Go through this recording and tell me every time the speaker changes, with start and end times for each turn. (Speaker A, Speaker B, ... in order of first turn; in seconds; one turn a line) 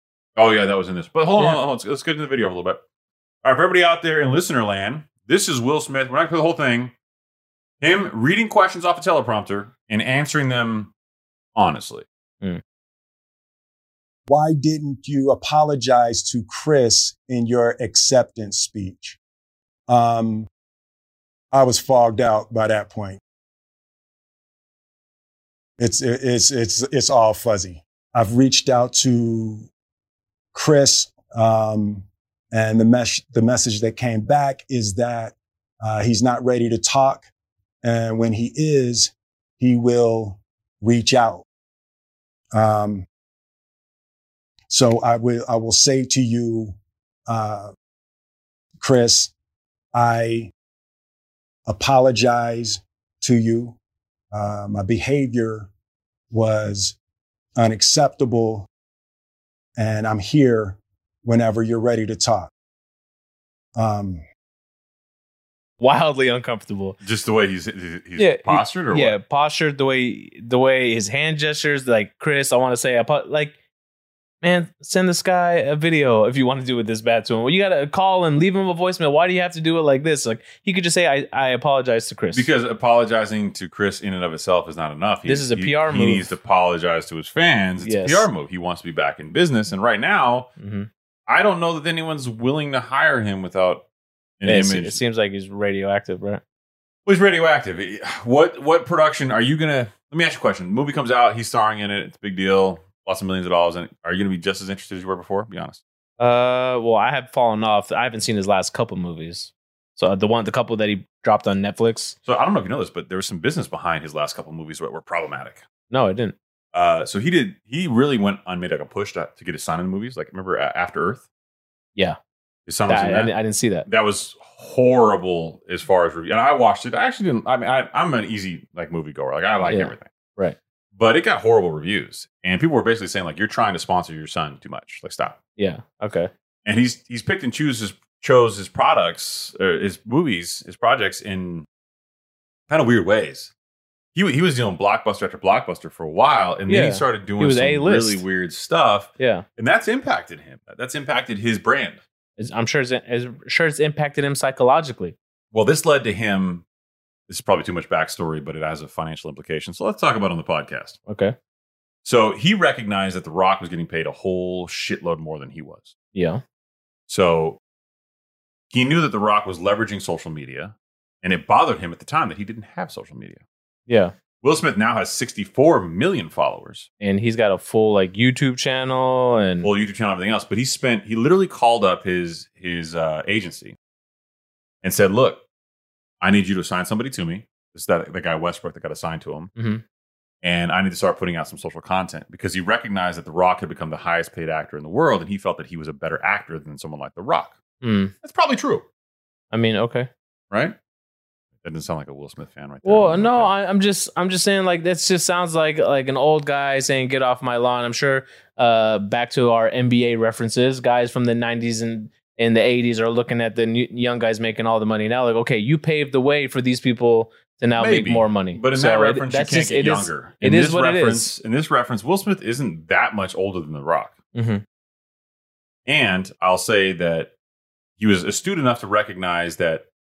Speaker A: 0.4-2.8
Speaker A: 3.4-6.9
Speaker A: 7.8-10.9
Speaker A: 11.6-12.1
Speaker B: 14.3-19.2
Speaker B: 19.9-20.5
Speaker B: 21.5-23.2
Speaker B: 25.8-29.7
Speaker B: 30.5-37.3
Speaker B: 37.8-41.5
Speaker B: 42.5-43.1
Speaker B: 44.7-46.8
Speaker B: 47.3-47.7
Speaker B: 48.8-49.3
Speaker B: 49.9-50.5
Speaker B: 51.7-53.8
Speaker B: 54.3-55.7
Speaker B: 56.3-57.0
Speaker B: 57.6-58.7
Speaker B: 59.8-62.5
Speaker B: 63.8-64.2
Speaker C: 65.8-67.0
Speaker A: 67.0-69.2
Speaker C: 68.2-73.5
Speaker C: 74.4-82.5
Speaker A: 82.3-90.5
Speaker C: 85.3-86.3
Speaker C: 87.8-88.3
Speaker C: 90.6-90.9
Speaker A: 91.3-93.8
Speaker A: 94.4-95.0
Speaker C: 94.5-96.4
Speaker A: 97.1-105.8
Speaker C: 106.2-112.2
Speaker A: 112.2-115.6
Speaker C: 115.9-116.3
Speaker A: 116.7-121.2
Speaker A: 122.7-123.3
Speaker C: 122.9-123.9
Speaker A: 123.9-130.1
Speaker C: 129.7-130.6
Speaker A: 130.9-135.4
Speaker C: 135.6-136.3
Speaker A: 136.7-141.7
Speaker A: 142.7-143.5
Speaker A: 144.1-152.0
Speaker C: 146.7-148.2
Speaker C: 149.2-149.4
Speaker C: 152.4-155.2
Speaker A: 155.5-156.7
Speaker A: 157.3-161.0
Speaker C: 161.1-161.3
Speaker A: 162.0-165.9
Speaker C: 166.1-166.4
Speaker A: 167.1-167.6
Speaker A: 168.7-173.4
Speaker C: 173.9-174.1
Speaker A: 174.4-176.9
Speaker C: 177.0-179.7
Speaker A: 179.6-183.8
Speaker A: 184.8-185.4
Speaker A: 186.2-189.5
Speaker C: 189.6-189.8
Speaker A: 190.4-197.6
Speaker C: 197.8-198.1
Speaker A: 198.2-198.8
Speaker C: 199.5-200.1
Speaker A: 200.5-200.8
Speaker A: 201.6-203.5
Speaker C: 202.8-221.3
Speaker A: 217.8-224.2
Speaker C: 224.3-224.6
Speaker A: 225.9-227.3
Speaker A: 228.0-229.8